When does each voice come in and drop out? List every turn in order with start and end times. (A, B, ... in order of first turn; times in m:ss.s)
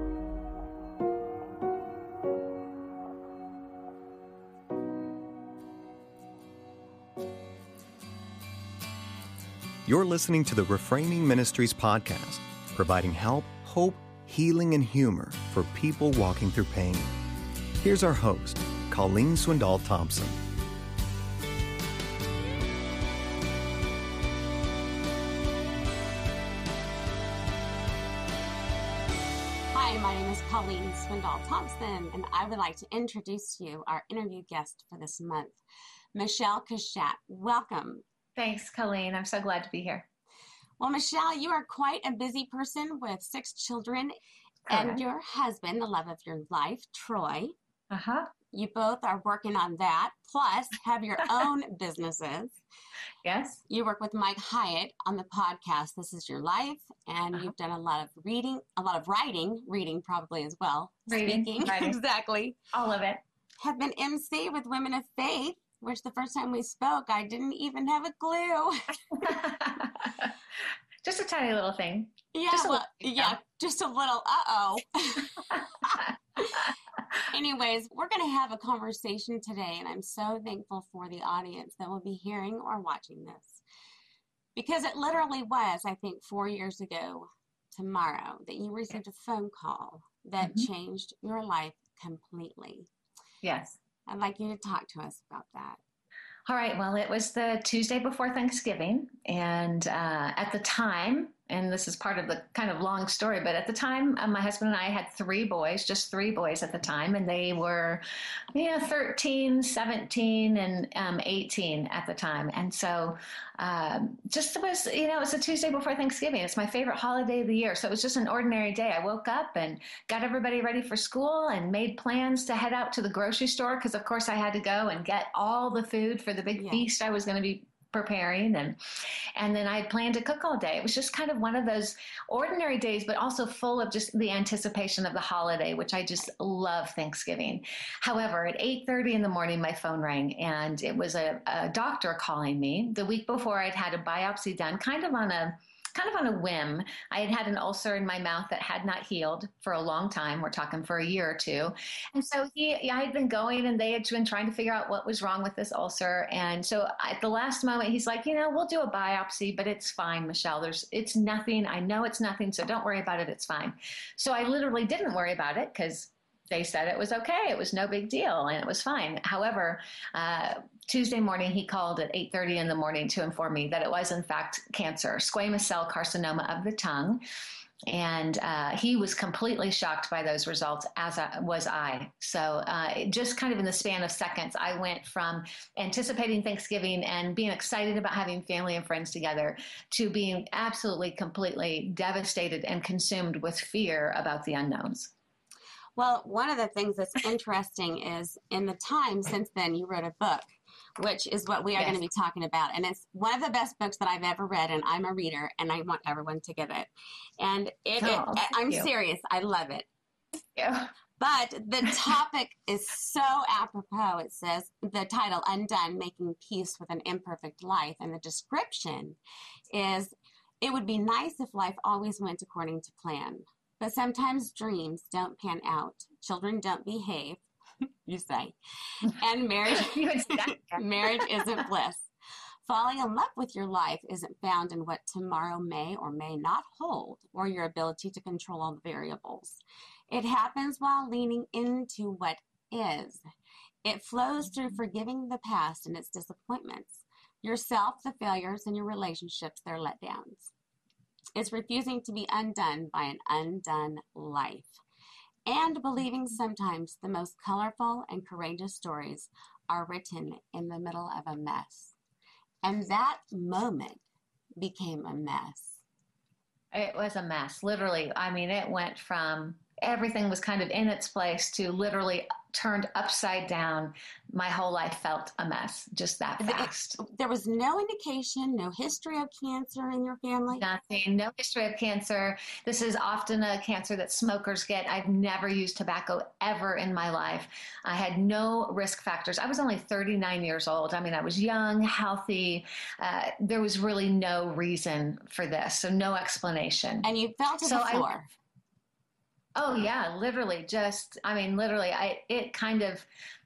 0:09.9-0:17.2 A
0:17.8-0:20.4 A
0:29.7-0:35.6 B
0:36.2-0:38.0 B
0:38.4-0:40.1 C
0:40.8-0:44.1 B
0:44.7-0:45.0 C
0:44.7-0:47.6 B
0:47.9-0:48.3 C
0:48.5-0:52.6 B
0:53.2-0:53.6 C
0:53.7-1:02.6 B
1:01.1-1:02.0 C
1:02.7-1:03.2 C
1:03.6-1:09.0 B
1:09.1-1:10.3 C
1:11.0-1:13.4 C
1:12.3-1:16.0 B
1:15.5-1:16.7 C
1:17.3-1:23.6 B
1:24.6-1:32.9 B
1:30.4-1:30.7 C
1:33.4-1:33.8 C
1:34.1-1:35.8 B
1:36.5-1:48.0 C
1:48.5-2:08.8 C
2:06.6-2:06.9 B
2:09.4-2:57.2 C
2:57.9-3:15.1 C
3:16.0-3:29.9 B
3:28.0-3:28.9 C
3:30.6-3:30.9 C
3:31.2-3:39.2 B
3:39.7-3:47.4 B
3:48.0-3:52.1 B
3:49.7-3:51.3 C
3:52.7-4:03.2 B
4:03.8-4:10.5 B
4:11.4-4:14.8 B
4:15.5-4:21.9 B
4:22.6-4:24.0 B
4:24.6-4:25.8 B
4:26.7-4:37.0 C
4:36.4-4:40.7 B
4:40.5-4:57.1 C
4:57.0-4:58.3 B
4:57.6-4:58.1 C
4:59.6-5:03.1 C